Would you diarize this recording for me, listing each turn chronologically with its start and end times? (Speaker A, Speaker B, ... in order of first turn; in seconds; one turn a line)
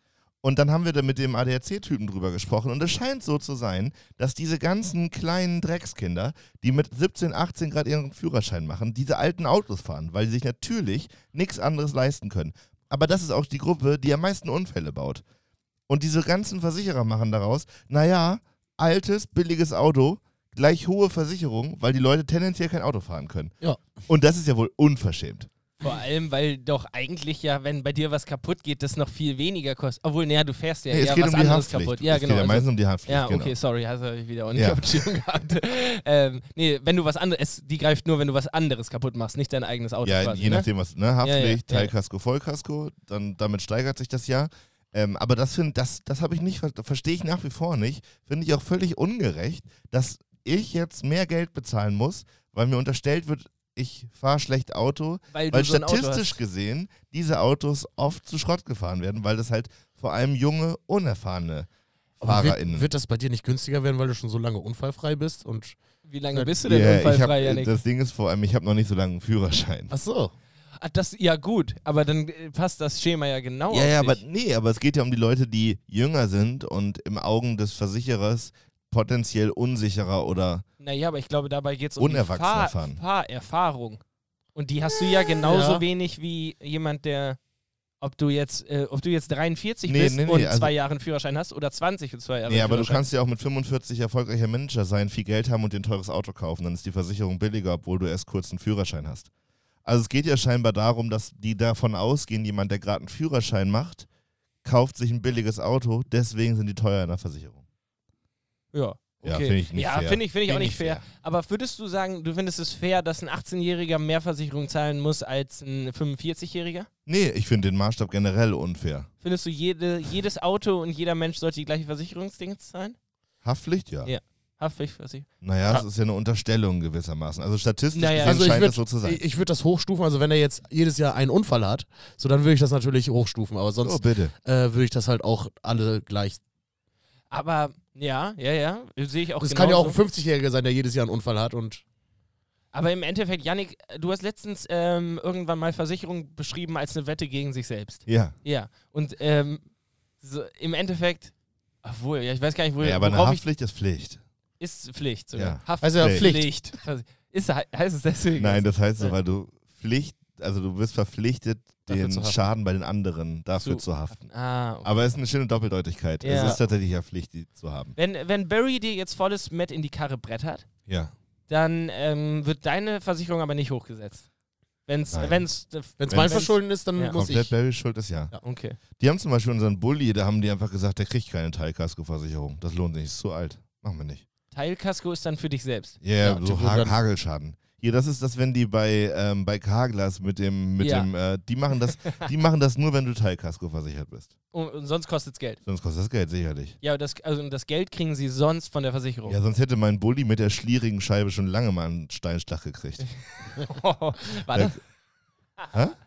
Speaker A: 0.4-15.2
Speaker A: 15.9-25.5
Speaker B: 25.8-40.7
Speaker A: 30.9-33.5
Speaker A: 34.5-35.1
Speaker A: 40.0-61.7
Speaker B: 41.2-41.9
Speaker B: 55.3-56.4
Speaker A: 62.2-62.9
Speaker C: 62.2-65.8
Speaker B: 66.0-67.8
Speaker A: 66.6-69.9
Speaker C: 69.9-70.3
Speaker B: 70.8-74.2
Speaker A: 73.7-80.6
Speaker B: 80.8-84.0
Speaker A: 82.0-83.0
Speaker B: 84.5-87.4
Speaker C: 85.4-85.8
Speaker B: 88.0-93.0
Speaker A: 89.9-90.7
Speaker A: 92.5-99.3
Speaker A: 99.8-104.1
Speaker A: 104.6-107.6
Speaker B: 108.7-116.9
Speaker A: 109.2-111.0
Speaker A: 117.0-119.1
Speaker B: 119.2-123.0
Speaker A: 123.4-124.1
Speaker B: 124.0-125.8
Speaker A: 125.4-129.2
Speaker B: 127.9-128.5
Speaker C: 128.2-136.4
Speaker A: 133.8-134.3
Speaker B: 137.3-140.0
Speaker C: 139.4-141.8
Speaker B: 142.7-149.6
Speaker A: 148.1-148.3
Speaker B: 150.2-151.3
Speaker B: 151.8-153.4
Speaker A: 152.8-154.2
Speaker B: 154.6-159.1
Speaker A: 155.3-156.3
Speaker C: 155.8-156.5
Speaker A: 158.4-164.3
Speaker C: 161.9-162.4
Speaker B: 163.6-165.0
Speaker A: 164.8-167.9
Speaker B: 166.2-166.6
Speaker C: 166.3-166.6
Speaker B: 167.9-170.7
Speaker B: 171.5-174.2
Speaker B: 174.9-177.2
Speaker A: 175.1-175.4
Speaker C: 176.0-177.5
Speaker A: 176.1-176.5
Speaker A: 177.1-178.3
Speaker B: 178.4-178.8
Speaker A: 179.0-184.2
Speaker B: 184.5-186.0
Speaker A: 186.0-194.3
Speaker C: 186.2-186.9
Speaker B: 190.8-191.1
Speaker B: 192.0-192.3
Speaker B: 194.5-195.6
Speaker A: 195.7-196.8
Speaker B: 196.8-199.4
Speaker A: 199.3-203.1
Speaker B: 203.1-204.8
Speaker A: 204.5-204.8